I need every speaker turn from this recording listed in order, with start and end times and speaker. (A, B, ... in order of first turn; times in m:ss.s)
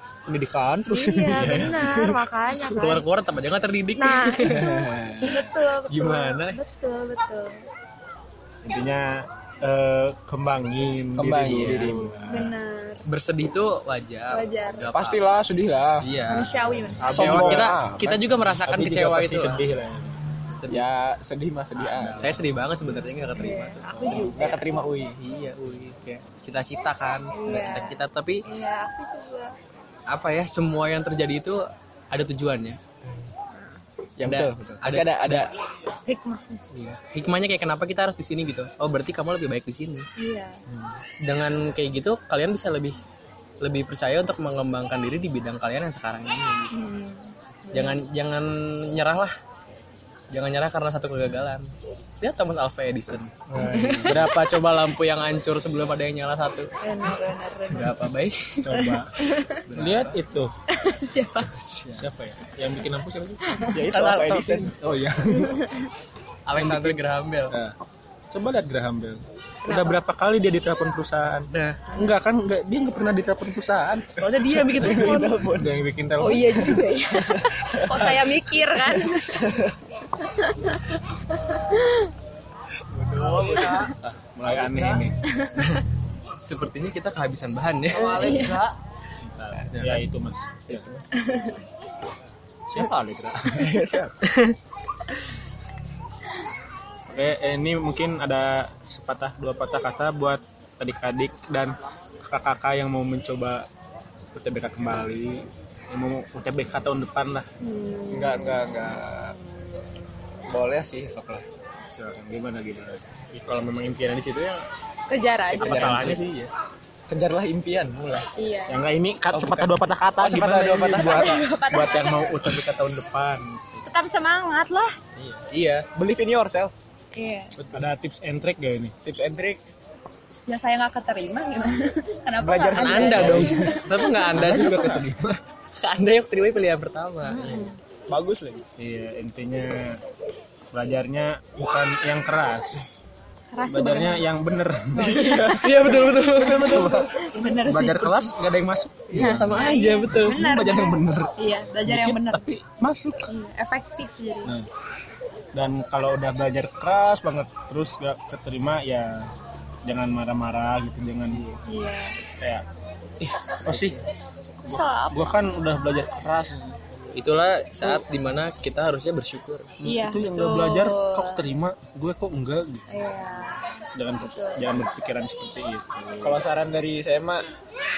0:00.3-0:02.0 A
0:00.9-0:03.0 B
0:01.3-0:02.2 C
0:02.7-0:04.6 D
0:04.0-0:07.6 B
0:04.4-0:06.6 C
0:08.6-0:12.5 A
0:11.2-0:12.2 C
0:11.5-0:12.2 D
0:12.3-0:13.0 B
0:13.0-0:15.2 D
0:14.3-0:14.9 B
0:14.9-0:16.0 C
0:16.0-0:16.5 D
0:16.3-0:17.2 B
0:17.0-0:17.9 A
0:17.1-0:18.2 C
0:17.1-0:19.6 D
0:18.4-0:20.2 A
0:20.6-0:20.9 D
0:20.7-0:22.3 C
0:21.8-0:22.7 A
0:22.2-0:24.4 D
0:23.3-0:24.9 B
0:24.0-0:25.2 C
0:25.2-0:28.4 D
0:27.3-0:29.5 B
0:30.1-0:32.8 D
0:33.5-0:33.8 B
0:34.2-0:35.5 C
0:34.2-0:35.5 D
0:36.0-0:36.6 B
0:36.7-0:40.1 D
0:40.2-0:40.6 B
0:41.2-0:43.0 D
0:43.6-0:46.9 D
0:46.7-0:48.0 B
0:47.7-0:49.4 D
0:50.3-0:53.4 D
0:53.5-0:54.3 A
0:53.5-0:54.2 B
0:54.0-0:56.7 D
0:56.8-0:58.1 B
0:57.7-0:58.7 D
0:58.6-1:00.5 A
0:58.7-0:59.6 B
0:59.7-1:00.2 D
1:00.7-1:01.6 B
1:01.9-1:03.6 A
1:03.7-1:04.8 C
1:03.8-1:04.7 D
1:04.7-1:05.7 A
1:05.3-1:05.9 B
1:06.4-1:07.5 D
1:06.5-1:07.8 A
1:08.3-1:14.2 A
1:09.6-1:10.0 B
1:11.5-1:11.9 D
1:14.2-1:15.4 D
1:14.6-1:15.8 C
1:15.5-1:16.9 A
1:16.2-1:19.5 B
1:16.7-1:19.8 C
1:20.2-1:22.1 B
1:22.9-1:23.9 C
1:23.2-1:23.9 B
1:24.0-1:25.2 A
1:24.5-1:25.0 C
1:25.3-1:25.6 B
1:26.4-1:28.6 D
1:27.9-1:28.6 B
1:29.2-1:30.8 A
1:29.7-1:30.0 D
1:30.7-1:31.0 C
1:31.1-1:31.6 B
1:32.7-1:33.8 A
1:33.5-1:34.3 C
1:37.1-1:43.6 A
1:44.3-1:47.5 A
1:47.6-1:48.6 B
1:48.1-1:49.4 C
1:50.5-1:51.4 C
1:51.9-1:54.6 A
1:55.1-1:56.2 B
1:55.5-1:56.3 A
1:55.6-1:56.2 C
1:55.6-1:56.5 D
1:57.1-1:58.3 C
1:58.4-1:58.8 B
1:58.7-2:03.9 A
1:59.3-2:01.4 C
2:00.9-2:02.4 B
2:03.8-2:04.9 B
2:05.1-2:06.7 C
2:05.5-2:05.9 D
2:07.1-2:07.6 B
2:07.6-2:07.8 C
2:07.7-2:08.9 A
2:09.0-2:09.6 C
2:10.5-2:14.6 B
2:12.4-2:13.5 C
2:12.8-2:15.0 D
2:13.0-2:15.4 A
2:15.7-2:17.6 D
2:17.2-2:17.8 B
2:18.1-2:18.6 C
2:18.8-2:20.0 A
2:20.7-2:22.8 A
2:23.5-2:24.2 B
2:23.6-2:25.6 A
2:24.9-2:28.3 B
2:25.2-2:27.2 C
2:25.5-2:26.8 D
2:26.5-2:31.3 A
2:29.1-2:30.4 D
2:29.1-2:32.4 B
2:31.8-2:33.3 A
2:33.3-2:34.6 B
2:35.5-2:39.3 A
2:39.8-2:41.5 A
2:41.3-2:41.6 D
2:41.6-2:42.2 B
2:42.4-2:42.6 A
2:43.2-2:44.0 A
2:44.6-2:45.3 B
2:44.6-2:46.8 A
2:47.1-2:49.8 D
2:49.8-2:52.8 A
2:49.8-2:51.4 B
2:52.9-2:53.6 B
2:53.9-2:56.1 A
2:54.2-2:54.8 B
2:56.2-2:57.4 C